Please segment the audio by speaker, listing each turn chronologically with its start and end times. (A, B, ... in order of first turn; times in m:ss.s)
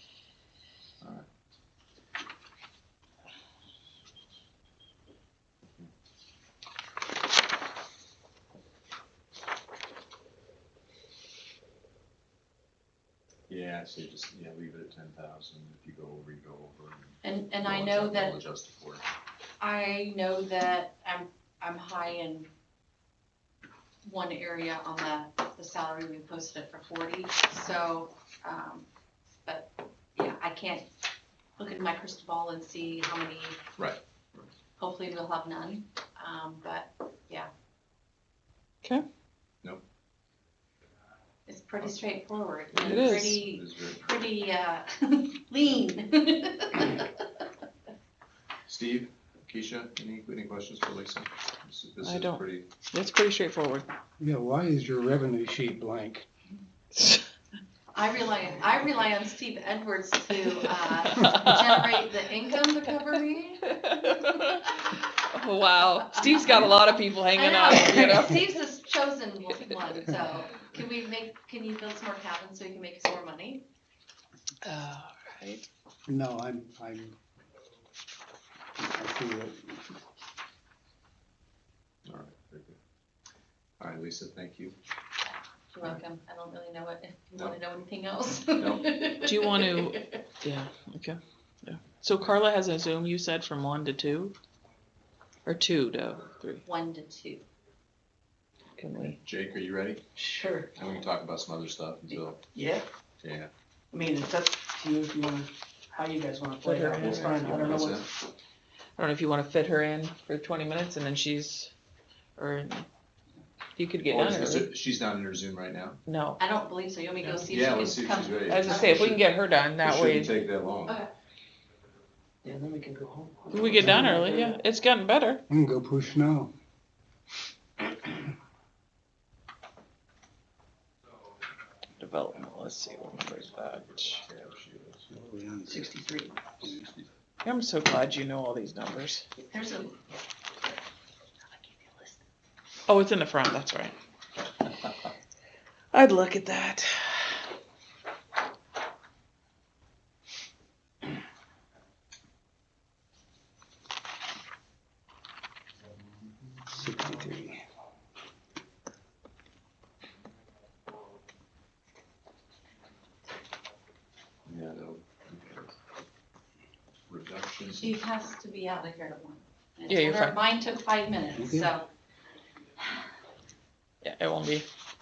0:13.5-0:19.1 A
0:17.2-0:18.4 B
0:19.6-0:22.5 B
0:24.0-0:28.9 B
0:29.4-0:30.9 B
0:31.6-0:33.6 B
0:34.8-0:37.5 B
0:41.5-0:47.3 B
0:42.7-0:44.0 A
0:42.8-0:43.4 C
0:48.7-0:52.7 A
0:52.0-0:53.9 C
0:54.2-0:56.3 D
0:57.0-0:57.2 C
0:57.9-1:04.6 B
1:00.5-1:01.9 C
1:03.7-1:08.4 C
1:06.1-1:06.8 B
1:07.3-1:13.6 B
1:14.6-1:15.7 C
1:16.1-1:17.2 D
1:18.8-1:19.8 D
1:22.1-1:22.8 A
1:23.8-1:24.8 A
1:25.7-1:30.2 B
1:27.3-1:27.6 A
1:28.6-1:29.0 A
1:29.3-1:34.4 C
1:35.5-1:36.6 C
1:36.6-1:37.4 B
1:38.8-1:39.2 C
1:39.2-1:40.0 A
1:40.2-1:40.7 E
1:40.8-1:42.4 A
1:42.6-1:42.8 E
1:43.2-1:43.5 A
1:43.9-1:48.0 E
1:46.6-1:47.8 C
1:47.0-1:48.1 A
1:49.0-1:51.7 C
1:52.4-1:52.9 C
1:53.8-1:54.7 C
1:54.1-1:56.0 A
1:56.1-1:56.4 C
1:56.4-1:59.0 B
1:57.5-1:59.3 A
1:58.5-2:00.3 C
1:59.8-2:01.0 A
2:02.4-2:04.6 E
2:03.5-2:05.4 C
2:03.8-2:04.1 D
2:05.5-2:06.5 D
2:12.0-2:14.2 C
2:14.2-2:15.1 A
2:15.1-2:15.9 D
2:15.7-2:16.0 A
2:15.7-2:16.6 E
2:16.6-2:17.1 A
2:17.4-2:19.2 C
2:19.4-2:20.0 B
2:22.9-2:23.9 C
2:25.9-2:27.3 C
2:36.7-2:37.6 D
2:44.5-2:45.8 A
2:47.1-2:48.0 A
2:47.6-2:51.9 B
2:49.9-2:50.4 C
2:51.4-2:51.7 D
2:54.0-2:54.7 C